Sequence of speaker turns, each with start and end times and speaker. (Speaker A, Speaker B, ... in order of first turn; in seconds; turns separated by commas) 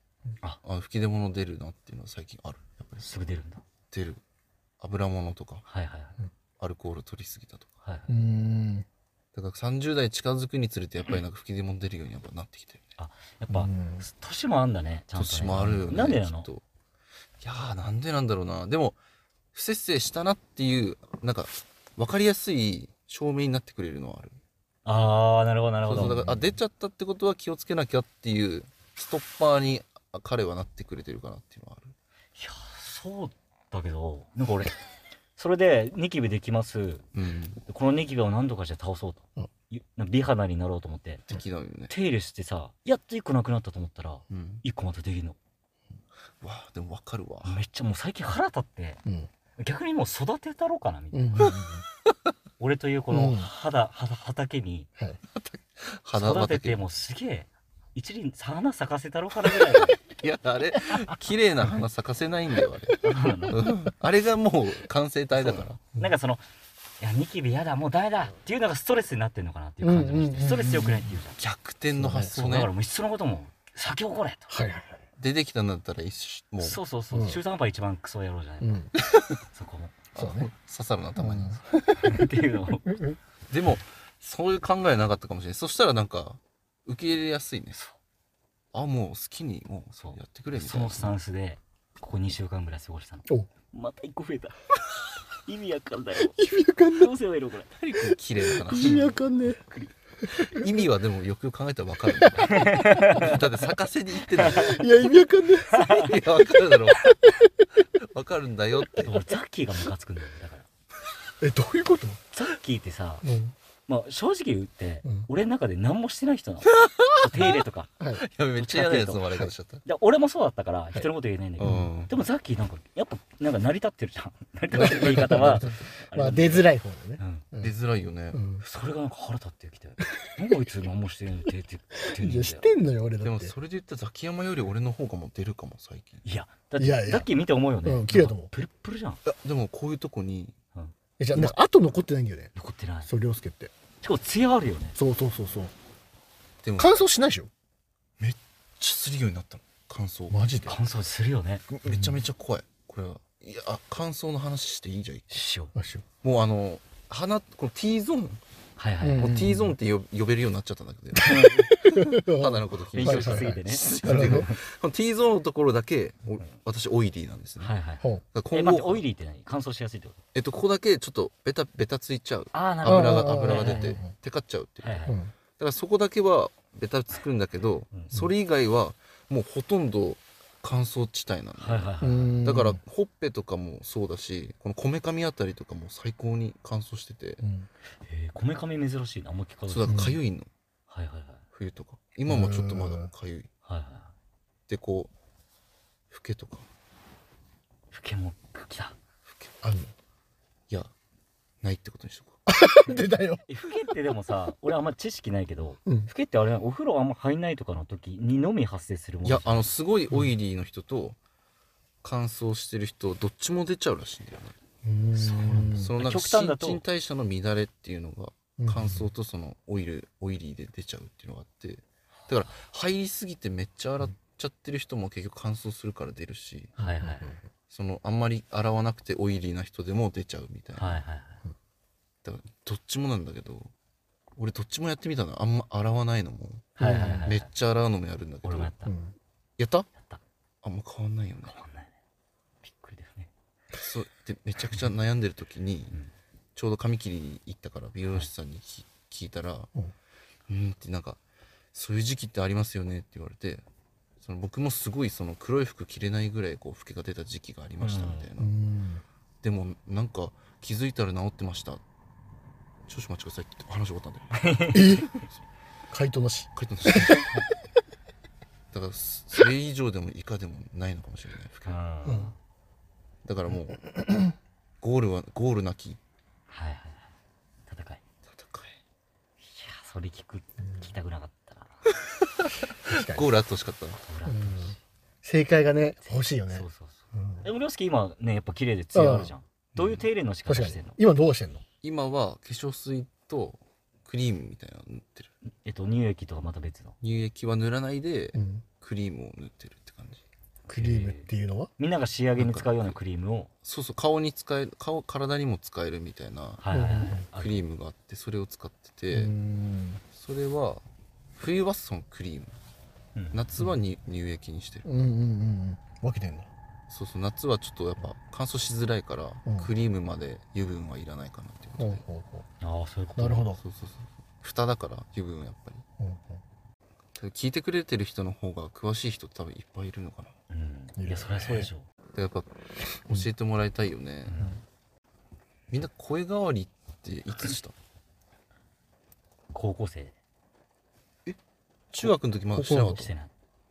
Speaker A: 0.6-3.1, Speaker B: 3.0-3.6, Speaker A: 3.9-4.2, Speaker A: 4.8-5.6, Speaker B: 5.7-6.2, Speaker A: 6.6-7.7, Speaker B: 7.8-8.1, Speaker C: 8.1-8.9, Speaker A: 9.3-12.9, Speaker B: 13.0-16.5, Speaker C: 13.5-14.1, Speaker A: 15.1-16.6, Speaker A: 17.4-19.0, Speaker A: 19.5-24.4, Speaker B: 24.9-26.4, Speaker A: 25.9-31.9, Speaker B: 32.4-34.8, Speaker B: 35.4-37.1, Speaker A: 37.1-37.6, Speaker B: 37.7-41.3, Speaker A: 41.3-41.9, Speaker B: 41.9-45.4, Speaker A: 44.3-44.6, Speaker A: 46.4-47.6, Speaker B: 47.5-49.0, Speaker B: 49.6-51.5, Speaker C: 51.1-51.8, Speaker B: 52.6-54.9, Speaker C: 53.1-53.5, Speaker A: 55.4-56.8, Speaker B: 56.1-60.0, Speaker A: 59.6-63.0, Speaker B: 63.0-63.6, Speaker A: 63.5-65.9, Speaker B: 66.0-66.4, Speaker B: 67.0-71.4, Speaker C: 69.8-71.2, Speaker A: 71.4-72.7, Speaker C: 72.0-72.3, Speaker B: 72.3-74.6, Speaker C: 74.5-75.0, Speaker A: 75.2-76.8, Speaker B: 76.6-78.9, Speaker C: 77.1-77.4, Speaker C: 78.6-78.9, Speaker A: 79.0-79.4, Speaker B: 79.5-80.0, Speaker A: 80.1-81.7, Speaker C: 80.2-80.5, Speaker C: 81.2-82.3, Speaker B: 82.0-83.0, Speaker C: 82.8-83.2, Speaker A: 83.5-87.8, Speaker A: 88.7-91.1, Speaker B: 90.0-94.6, Speaker B: 95.4-96.4, Speaker C: 96.3-97.2, Speaker B: 96.9-97.7, Speaker A: 97.7-99.2, Speaker C: 98.0-99.6, Speaker A: 100.3-104.9, Speaker C: 102.2-103.2, Speaker B: 102.5-103.3, Speaker C: 104.5-105.9, Speaker B: 105.7-106.1, Speaker A: 105.9-107.1, Speaker C: 107.0-107.5, Speaker A: 108.0-109.2, Speaker B: 109.0-110.7, Speaker C: 111.4-112.2, Speaker B: 112.3-113.2, Speaker C: 113.2-113.5, Speaker B: 113.9-117.9, Speaker A: 116.7-117.6, Speaker A: 118.2-119.9, Speaker B: 118.6-119.2, Speaker B: 119.8-127.5, Speaker A: 121.6-122.2, Speaker C: 121.6-121.9, Speaker C: 124.7-127.7, Speaker A: 124.8-125.7, Speaker A: 127.6-128.4, Speaker C: 128.3-128.6, Speaker B: 128.6-132.7, Speaker C: 132.2-133.5, Speaker A: 133.2-136.2, Speaker B: 136.2-139.2, Speaker C: 136.8-137.3, Speaker C: 137.8-138.5, Speaker A: 139.2-140.6, Speaker C: 141.2-142.5, Speaker B: 142.6-143.1, Speaker C: 143.1-143.7, Speaker B: 144.0-145.0, Speaker C: 145.0-145.7, Speaker A: 146.6-146.9, Speaker C: 146.8-147.5, Speaker A: 148.2-150.4, Speaker C: 150.3-150.8, Speaker B: 150.7-151.6, Speaker A: 151.8-155.5, Speaker C: 151.8-152.2, Speaker B: 155.3-155.7, Speaker C: 155.8-156.1, Speaker A: 156.2-158.4, Speaker B: 158.8-159.3, Speaker C: 159.0-159.8, Speaker A: 159.2-167.8, Speaker C: 161.2-164.5, Speaker B: 161.2-161.7, Speaker B: 162.9-164.5, Speaker B: 167.6-170.2, Speaker A: 168.3-169.0, Speaker A: 170.3-175.0, Speaker B: 172.5-174.0, Speaker C: 172.8-174.1, Speaker B: 174.8-175.2, Speaker C: 175.1-175.3, Speaker A: 175.6-187.4, Speaker B: 181.6-182.3, Speaker C: 182.0-182.8, Speaker C: 187.4-187.7, Speaker B: 188.1-190.1, Speaker A: 189.7-190.5, Speaker C: 189.9-190.2, Speaker B: 190.9-191.4, Speaker A: 191.5-193.5, Speaker C: 192.3-193.1, Speaker B: 193.7-194.1, Speaker A: 194.7-195.1, Speaker A: 196.1-196.7, Speaker B: 197.9-199.0, Speaker A: 199.3-199.6, Speaker C: 199.6-199.9, Speaker A: 201.6-202.4, Speaker C: 202.5-203.4, Speaker B: 202.8-209.7, Speaker A: 209.2-211.2, Speaker A: 212.0-214.6, Speaker C: 214.8-215.9, Speaker B: 215.2-216.8, Speaker A: 215.7-226.8, Speaker C: 218.6-219.1, Speaker B: 226.8-227.4, Speaker C: 226.8-227.4, Speaker A: 227.7-231.0, Speaker B: 230.8-231.4, Speaker A: 232.2-233.7, Speaker A: 234.4-238.7, Speaker B: 236.8-237.5, Speaker C: 236.8-237.3, Speaker B: 238.4-238.9, Speaker C: 238.8-239.2, Speaker A: 239.6-239.9, Speaker B: 239.9-240.2, Speaker A: 240.6-241.6, Speaker B: 241.5-241.9, Speaker B: 242.6-243.3, Speaker A: 243.8-246.0, Speaker A: 246.6-249.7, Speaker A: 250.5-251.2, Speaker A: 251.7-253.7, Speaker A: 254.2-258.5, Speaker B: 257.8-258.3, Speaker C: 258.4-259.0, Speaker A: 259.4-261.8, Speaker A: 262.9-265.3, Speaker B: 264.4-265.1, Speaker C: 264.7-265.1, Speaker C: 265.9-267.2, Speaker A: 266.6-267.4, Speaker A: 268.7-271.8, Speaker B: 271.6-272.3, Speaker C: 272.1-272.3, Speaker A: 273.2-273.9, Speaker C: 273.9-274.2, Speaker A: 274.8-276.0, Speaker B: 276.5-277.1, Speaker B: 277.7-278.0, Speaker A: 278.3-278.8, Speaker B: 279.4-281.8, Speaker C: 280.6-280.9, Speaker C: 282.9-283.3, Speaker A: 282.9-284.0, Speaker B: 284.0-284.8, Speaker C: 284.3-287.5, Speaker B: 286.0-291.0, Speaker C: 288.9-289.3, Speaker A: 289.8-290.1, Speaker C: 290.5-291.6, Speaker A: 291.8-295.3, Speaker B: 295.6-297.0, Speaker A: 297.0-300.2, Speaker C: 298.4-298.6, Speaker B: 300.7-303.5, Speaker C: 300.7-301.7, Speaker A: 302.4-303.0, Speaker A: 303.6-306.6, Speaker B: 306.6-307.6, Speaker C: 306.7-307.2, Speaker A: 307.2-309.3, Speaker C: 309.1-310.0, Speaker A: 310.1-310.9, Speaker A: 311.4-312.6, Speaker B: 313.1-313.4, Speaker A: 313.3-314.9, Speaker C: 314.9-316.5, Speaker A: 316.9-322.0, Speaker C: 321.8-322.5, Speaker B: 322.6-323.5, Speaker C: 323.2-323.6, Speaker A: 323.6-325.8, Speaker C: 326.0-326.4, Speaker A: 327.2-330.4, Speaker B: 330.5-331.9, Speaker C: 331.0-331.7, Speaker A: 332.1-334.5, Speaker B: 334.3-334.6, Speaker A: 335.7-337.7, Speaker B: 339.5-340.1, Speaker A: 341.9-343.1, Speaker C: 342.0-343.0, Speaker B: 342.7-343.3